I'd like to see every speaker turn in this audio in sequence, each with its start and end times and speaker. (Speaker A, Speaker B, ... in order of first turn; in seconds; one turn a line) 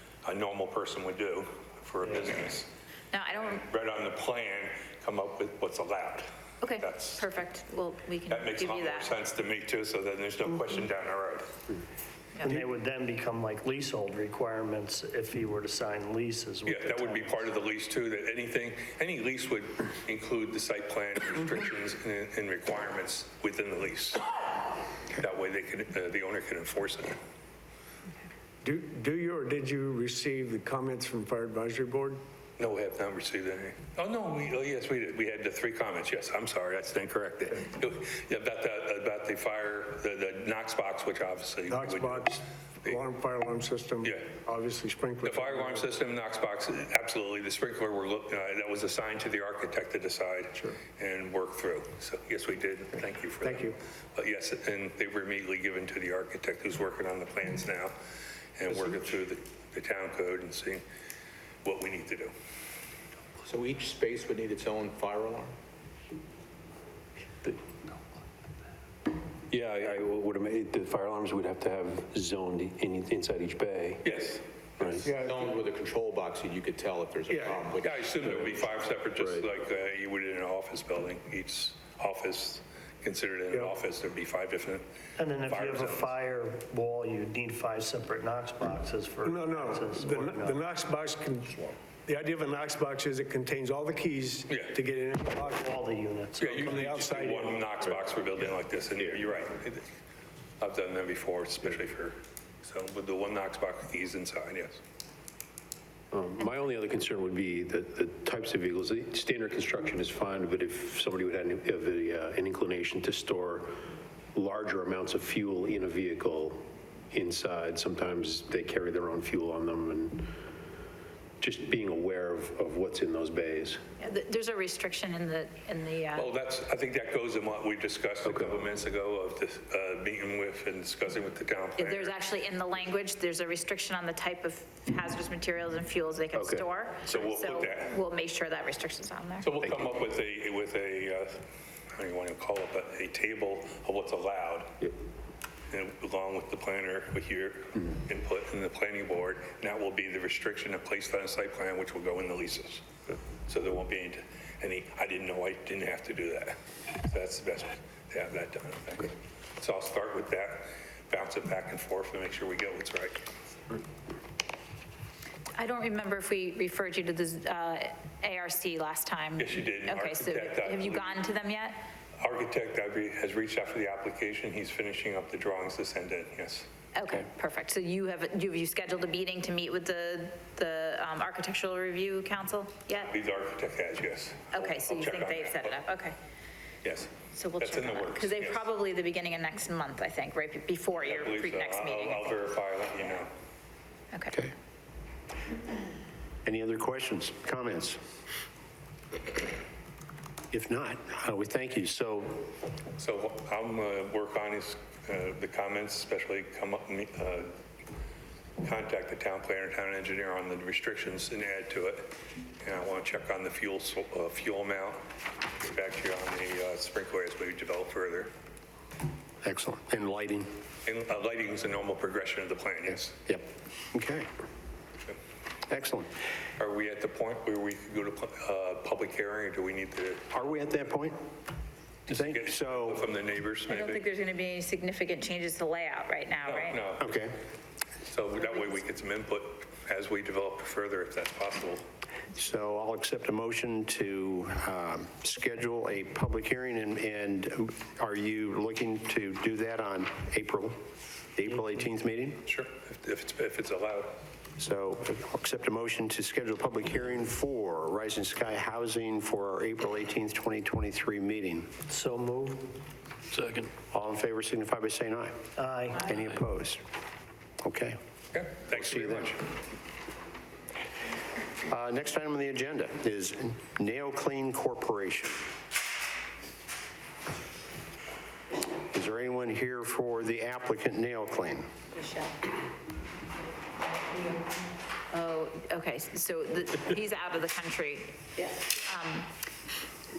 Speaker A: 0.2-2.7
Speaker B: 3.1-3.6
Speaker A: 3.4-6.2
Speaker B: 6.6-9.1
Speaker A: 6.8-7.2
Speaker A: 8.3-11.6
Speaker C: 12.4-17.4
Speaker A: 16.6-24.3
Speaker A: 25.1-27.2
Speaker D: 28.6-32.2
Speaker A: 32.6-42.3
Speaker D: 41.7-45.9
Speaker A: 44.0-44.3
Speaker A: 45.2-57.9
Speaker D: 53.4-53.7
Speaker A: 58.6-60.8
Speaker A: 61.6-62.3
Speaker E: 63.4-65.5
Speaker F: 69.5-74.1
Speaker A: 74.0-74.9
Speaker E: 74.1-74.4
Speaker F: 74.8-75.1
Speaker E: 75.0-78.8
Speaker D: 75.0-75.4
Speaker A: 77.8-84.8
Speaker F: 79.2-79.5
Speaker C: 85.2-90.6
Speaker A: 85.4-86.1
Speaker D: 89.2-95.7
Speaker A: 94.5-94.8
Speaker C: 95.6-96.5
Speaker A: 96.4-99.8
Speaker D: 96.4-97.6
Speaker A: 100.6-104.8
Speaker F: 106.1-113.8
Speaker F: 114.3-120.3
Speaker F: 121.4-123.8
Speaker B: 124.0-126.3
Speaker A: 126.1-132.2
Speaker F: 128.2-128.6
Speaker B: 131.8-139.5
Speaker F: 136.3-136.7
Speaker A: 137.1-137.9
Speaker A: 139.4-141.4
Speaker F: 139.6-139.9
Speaker A: 141.9-144.9
Speaker A: 145.7-152.8
Speaker A: 153.5-163.2
Speaker B: 165.6-171.8
Speaker A: 169.4-171.2
Speaker A: 172.2-176.7
Speaker B: 176.9-183.1
Speaker A: 182.9-185.8
Speaker B: 184.5-186.1
Speaker A: 186.8-188.6
Speaker B: 187.3-192.3
Speaker A: 190.9-193.3
Speaker B: 194.1-194.4
Speaker G: 196.4-198.0
Speaker G: 200.5-202.5
Speaker A: 203.0-207.5
Speaker A: 208.6-212.1
Speaker A: 212.6-215.0
Speaker A: 215.6-218.3
Speaker G: 219.4-220.5
Speaker A: 220.8-223.2
Speaker G: 223.2-224.3
Speaker G: 225.7-226.1
Speaker A: 226.6-230.3
Speaker G: 230.3-231.2
Speaker A: 232.1-234.0
Speaker G: 232.1-233.1
Speaker B: 233.7-236.8
Speaker A: 236.5-237.2
Speaker G: 237.0-237.3
Speaker A: 238.0-241.8
Speaker G: 242.3-250.8
Speaker G: 251.3-252.4
Speaker A: 252.4-254.2
Speaker G: 254.6-261.7
Speaker C: 261.9-262.7
Speaker G: 263.7-265.5
Speaker C: 265.6-266.1
Speaker G: 266.0-266.8
Speaker G: 267.6-268.0
Speaker A: 268.3-269.4
Speaker G: 268.7-269.3
Speaker G: 271.6-275.4
Speaker G: 278.9-281.7
Speaker B: 281.9-282.4
Speaker B: 285.1-289.3